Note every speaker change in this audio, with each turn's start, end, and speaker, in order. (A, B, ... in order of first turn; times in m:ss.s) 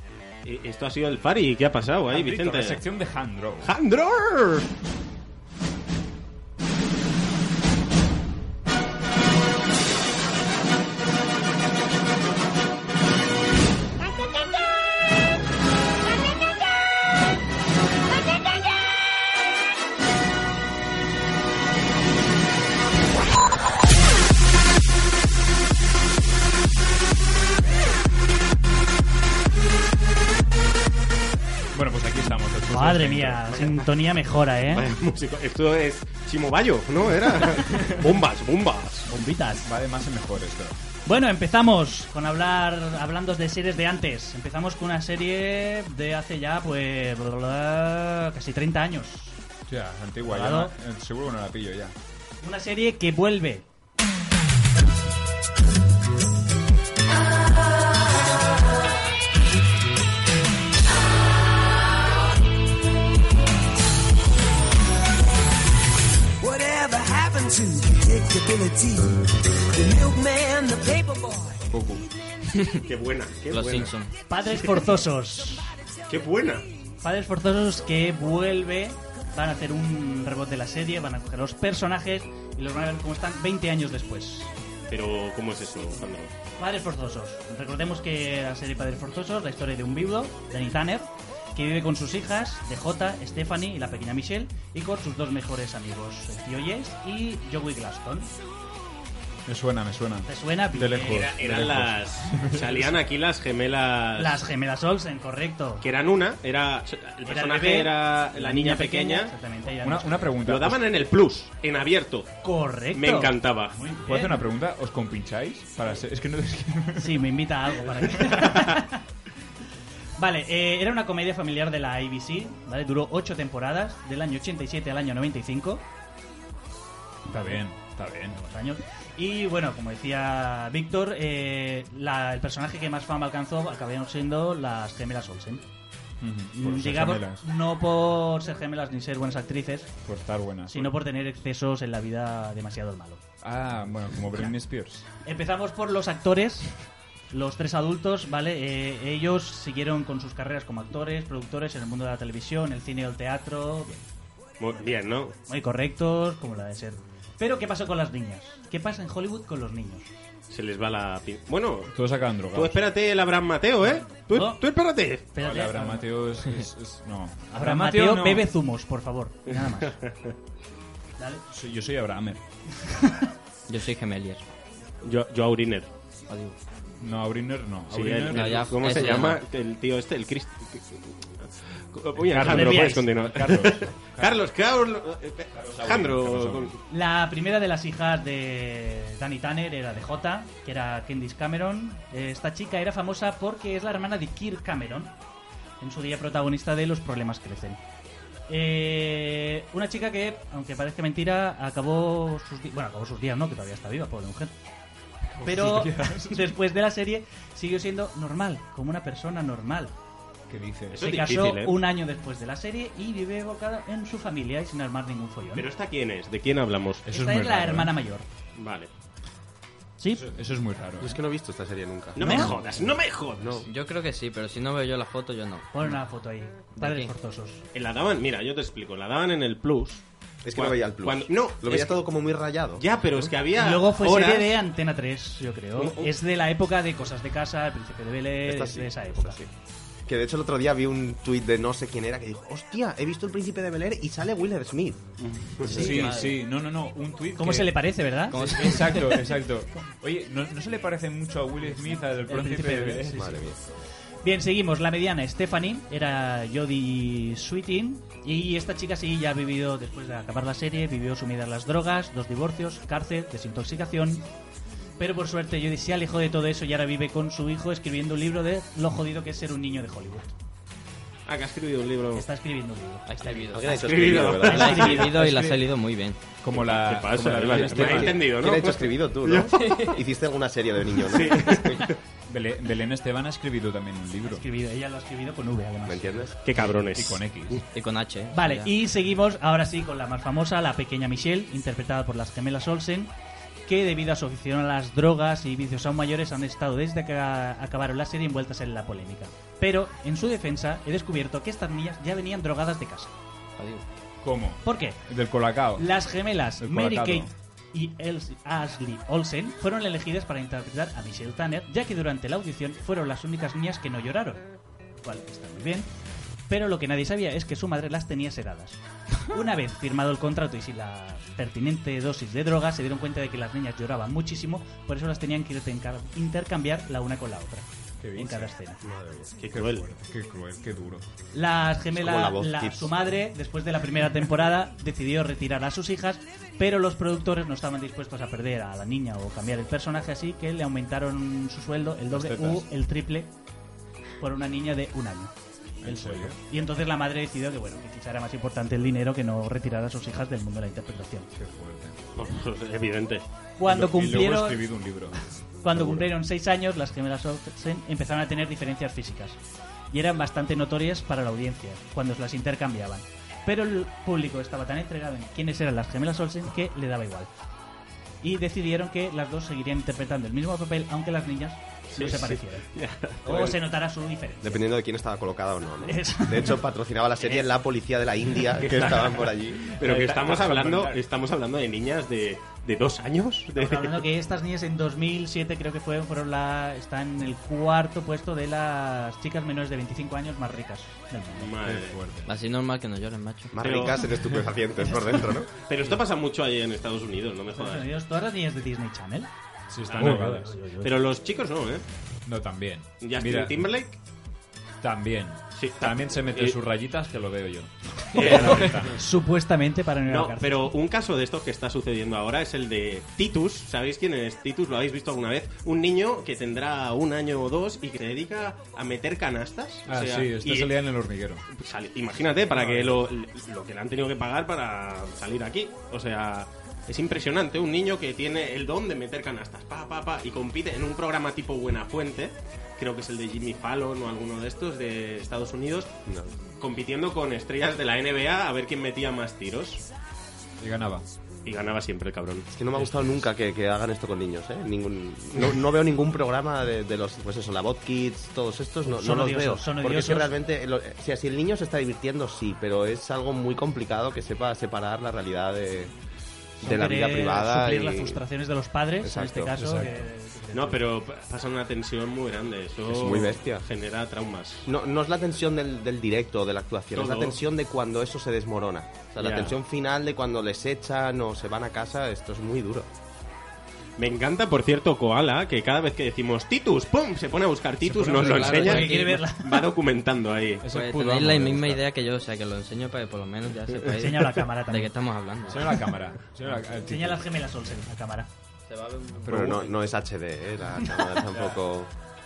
0:00.4-0:02.8 A
0:02.1-0:03.7 B
0:03.6-0:04.7 A
0:31.7-0:33.7 B
0:32.7-0:34.9 C
0:34.7-0:39.1 A
0:37.6-0:38.0 B
0:39.1-0:39.7 C
0:39.6-0:40.8 B
0:41.0-0:49.4 C
0:49.7-0:51.9 B
0:50.2-0:50.7 C
0:52.4-0:53.6 C
1:06.4-1:09.2 D
1:09.7-1:11.6 D
1:11.7-1:12.0 B
1:12.5-1:12.8 E
1:12.8-1:14.0 A
1:13.5-1:14.1 E
1:14.3-1:15.8 C
1:16.1-1:16.6 A
1:17.0-1:24.5 C
1:24.9-1:26.3 A
1:26.6-1:38.3 C
1:39.5-1:42.9 B
1:40.3-1:41.3 C
1:41.1-1:44.5 A
1:44.2-1:45.8 C
1:45.8-1:49.3 A
1:47.2-1:50.3 C
1:49.8-1:50.8 B
1:50.4-1:52.4 A
1:52.4-1:54.4 C
1:52.9-1:53.8 A
1:54.0-1:57.2 B
1:57.0-1:59.0 C
1:58.2-1:58.7 B
2:00.2-2:05.8 C
2:07.3-2:07.6 C
2:07.3-2:08.4 B
2:08.3-2:15.6 C
2:16.2-2:17.4 B
2:16.5-2:20.0 C
2:20.0-2:20.9 B
2:20.7-2:23.2 C
2:23.4-2:25.0 B
2:25.2-2:26.7 C
2:27.3-2:34.0 C
2:34.6-2:35.4 A
2:35.5-2:40.1 C
2:40.5-2:41.9 A
2:41.9-2:42.8 B
2:42.5-2:45.3 A
2:44.0-2:44.6 C
2:45.3-2:46.1 C
2:45.4-2:48.5 B
2:47.5-2:50.0 C
2:49.5-2:50.3 A
2:51.2-2:51.4 C
2:51.5-2:52.4 B
2:52.8-2:53.2 C
2:53.7-2:54.4 E
2:55.0-2:55.9 A
2:56.3-2:56.6 E
2:57.0-2:58.9 B
2:57.9-3:06.8 A
2:58.3-2:59.4 E
3:02.2-3:04.5 B
3:02.4-3:03.0 C
3:05.5-3:06.8 B
3:06.9-3:15.1 C
3:15.8-3:17.8 C
3:18.5-3:24.5 C
3:25.3-3:26.5 B
3:25.4-3:29.9 C
3:30.5-3:31.0 B
3:30.9-3:31.8 A
3:31.0-3:35.6 C
3:35.5-3:37.0 A
3:37.0-3:37.9 B
3:37.0-3:38.3 C
3:38.5-3:38.9 A
3:40.0-3:40.3 C
3:40.1-3:41.2 B
3:41.0-3:42.5 F
3:42.1-3:43.6 A
3:42.2-3:42.5 C
3:43.4-3:43.7 F
3:43.7-3:45.7 E
3:45.7-3:47.6 C
3:46.7-3:47.1 E
3:47.7-3:50.0 A
3:50.4-3:52.8 F
3:50.5-3:52.0 A
3:52.8-3:54.6 A
3:53.5-3:59.4 C
3:55.8-3:56.1 A
3:58.4-3:59.5 F
4:00.1-4:05.0 F
4:05.2-4:06.0 A
4:05.7-4:13.4 B
4:05.7-4:06.1 C
4:05.8-4:06.3 E
4:07.4-4:09.3 C
4:08.3-4:08.7 E
4:11.6-4:13.5 C
4:13.1-4:13.6 F
4:14.2-4:24.3 C
4:25.0-4:30.3 C
4:31.3-4:32.2 A
4:32.1-4:33.5 C
4:33.0-4:33.8 E
4:33.5-4:35.1 F
4:33.7-4:35.1 A
4:34.4-4:35.3 C
4:34.4-4:36.2 E
4:35.1-4:35.6 B
4:36.4-4:38.2 B
4:36.5-4:39.8 A
4:38.1-4:41.9 F
4:39.6-4:39.9 E
4:41.0-4:42.0 A
4:42.3-4:44.4 B
4:44.2-4:46.3 C
4:45.8-4:46.4 F
4:46.4-4:47.6 A
4:46.5-4:47.6 B
4:47.7-4:48.7 E
4:48.3-4:53.1 C
4:53.6-5:03.1 C
5:03.6-5:03.8 E
5:04.2-5:05.9 B
5:04.6-5:05.0 C
5:05.8-5:14.4 C
5:06.6-5:07.3 B
5:15.0-5:15.9 C
5:16.5-5:28.8 C
5:28.0-5:28.5 B
5:28.8-5:29.3 F
5:29.4-5:29.8 A
5:29.5-5:31.0 B
5:31.3-5:43.3 C
5:31.9-5:32.9 F
5:42.1-5:42.6 B
5:44.2-5:45.3 C
5:45.8-5:46.4 B
5:45.8-5:51.3 C
5:51.3-5:52.0 B
5:52.1-5:53.2 A
5:53.6-5:54.6 C
5:53.6-5:56.1 B
5:55.6-5:59.4 C
5:59.9-6:07.3 C
6:08.2-6:12.7 C
6:11.9-6:13.6 A
6:13.2-6:14.6 C
6:14.4-6:19.7 F
6:15.8-6:16.6 C
6:18.6-6:24.1 A
6:19.8-6:21.0 B
6:23.5-6:31.5 C
6:31.4-6:32.0 A
6:31.6-6:32.3 B
6:32.2-6:33.5 E
6:33.5-6:35.5 F
6:33.6-6:34.1 A
6:35.5-6:37.9 A
6:37.5-6:39.3 C
6:39.7-6:40.5 B
6:39.9-6:41.8 A
6:39.9-6:41.0 C
6:42.2-6:43.6 B
6:43.0-6:44.0 A
6:44.8-6:49.0 B
6:45.6-6:46.6 A
6:48.1-6:50.7 C
6:48.1-6:48.9 A
6:50.0-7:00.7 A
6:59.9-7:01.4 B
7:01.6-7:15.9 A
7:02.5-7:03.0 B
7:16.1-7:16.3 F
7:16.6-7:19.8 A
7:20.6-7:21.1 B
7:21.4-7:22.5 A
7:22.5-7:35.9 F
7:22.7-7:23.2 B
7:28.8-7:30.3 C
7:36.6-7:38.2 F
7:36.6-7:40.8 C
7:39.0-7:39.5 F
7:39.5-7:40.1 B
7:40.5-7:44.7 A
7:42.9-7:43.6 F
7:44.6-7:52.9 F
7:46.9-7:47.4 A
7:49.2-7:49.6 A
7:54.0-8:00.6 A
7:57.9-7:59.7 C
7:58.1-7:59.2 E
8:00.6-8:01.8 B
8:00.7-8:05.7 E
8:04.0-8:05.2 C
8:05.4-8:07.2 B
8:06.7-8:08.3 C
8:08.7-8:09.3 E
8:09.2-8:09.6 B
8:09.3-8:11.9 F
8:11.3-8:11.6 B